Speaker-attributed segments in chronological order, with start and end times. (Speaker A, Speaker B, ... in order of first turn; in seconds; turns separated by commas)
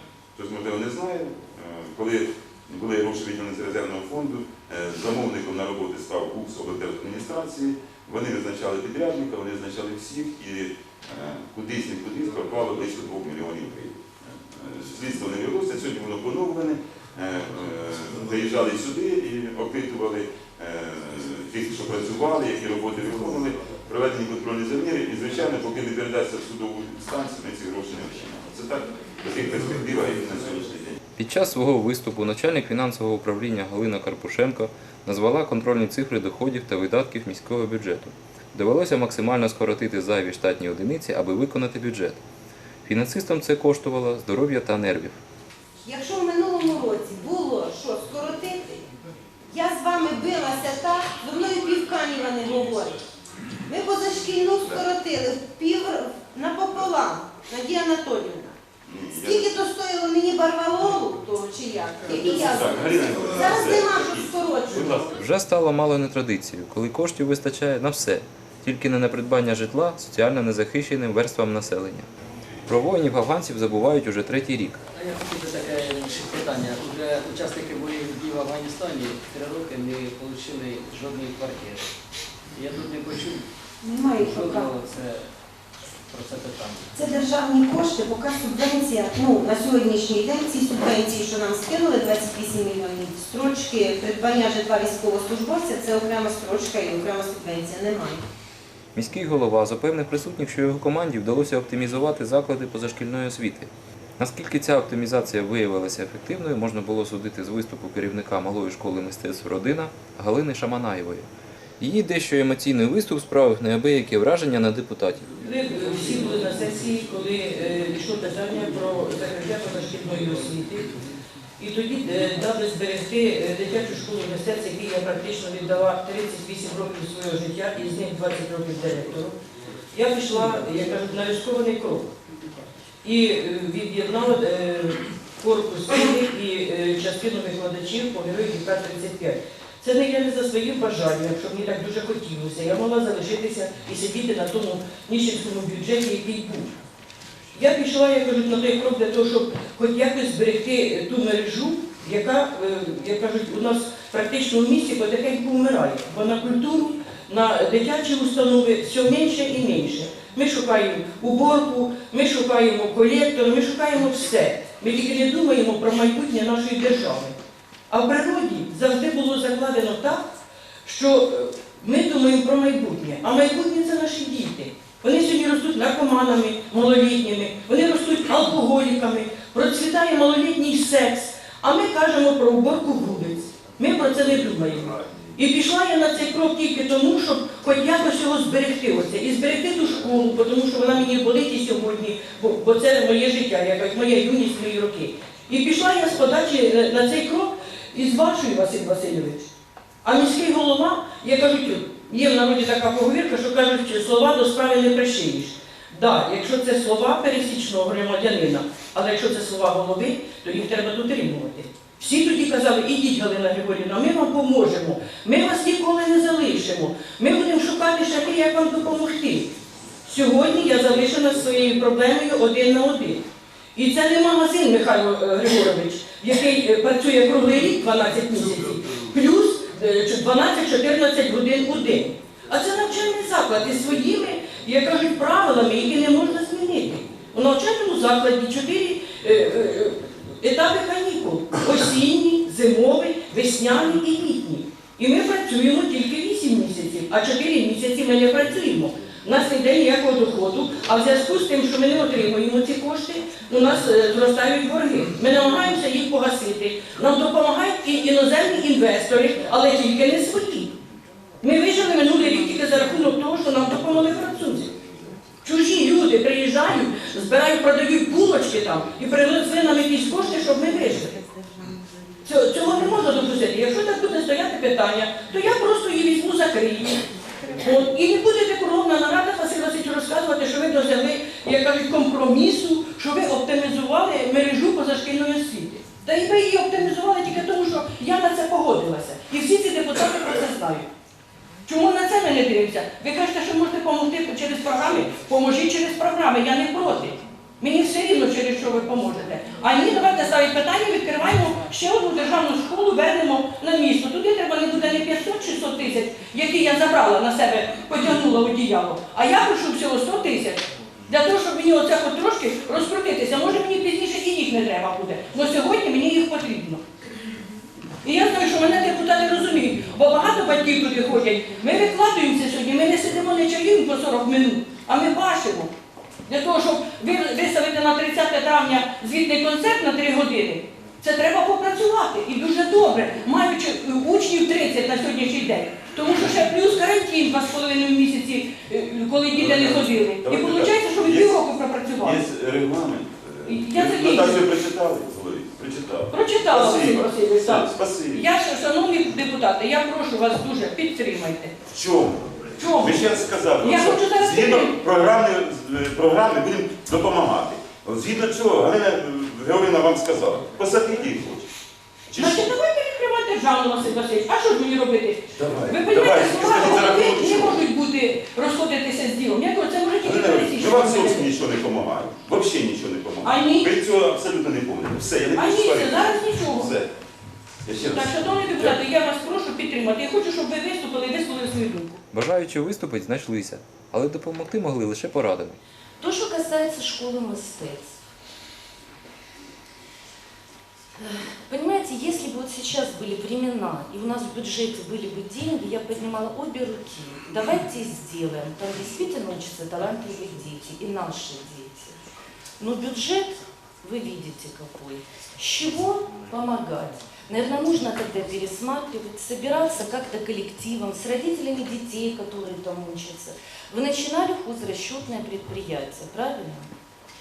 Speaker A: 0.3-31.0, Speaker B: 31.2-42.2, Speaker B: 42.8-45.2, Speaker C: 45.8-48.8, Speaker C: 49.5-53.0, Speaker C: 53.7-58.6, Speaker A: 58.8-59.6, Speaker C: 59.1-65.0, Speaker A: 62.2-65.1, Speaker B: 65.2-72.0, Speaker B: 72.7-74.8, Speaker D: 74.9-81.9, Speaker D: 82.5-83.4, Speaker C: 83.8-84.7, Speaker D: 84.3-85.2, Speaker D: 86.1-86.8, Speaker C: 86.9-98.2, Speaker B: 98.9-111.3, Speaker B: 111.8-115.2, Speaker E: 115.4-120.9, Speaker E: 121.6-129.3, Speaker E: 129.9-132.1, Speaker E: 133.0-146.7, Speaker E: 147.5-167.3, Speaker E: 167.9-170.2, Speaker E: 170.8-199.5, Speaker E: 200.0-219.5, Speaker E: 220.0-223.2, Speaker E: 223.7-260.7, Speaker E: 261.4-264.7, Speaker E: 265.4-271.1, Speaker E: 272.2-277.1, Speaker E: 277.6-290.9, Speaker E: 291.6-316.8, Speaker E: 318.0-325.7, Speaker E: 326.3-342.2, Speaker A: 339.3-341.4, Speaker A: 342.0-348.2, Speaker E: 343.4-344.4, Speaker E: 346.1-351.5, Speaker A: 351.7-361.5, Speaker E: 352.6-354.8, Speaker A: 362.1-362.5, Speaker E: 362.1-371.3, Speaker A: 365.3-367.6, Speaker A: 370.0-376.9, Speaker E: 373.2-373.7, Speaker E: 375.3-376.7, Speaker A: 377.6-378.8, Speaker E: 377.8-382.0, Speaker B: 382.1-385.6, Speaker F: 386.0-387.9, Speaker F: 391.0-401.9, Speaker F: 402.6-416.7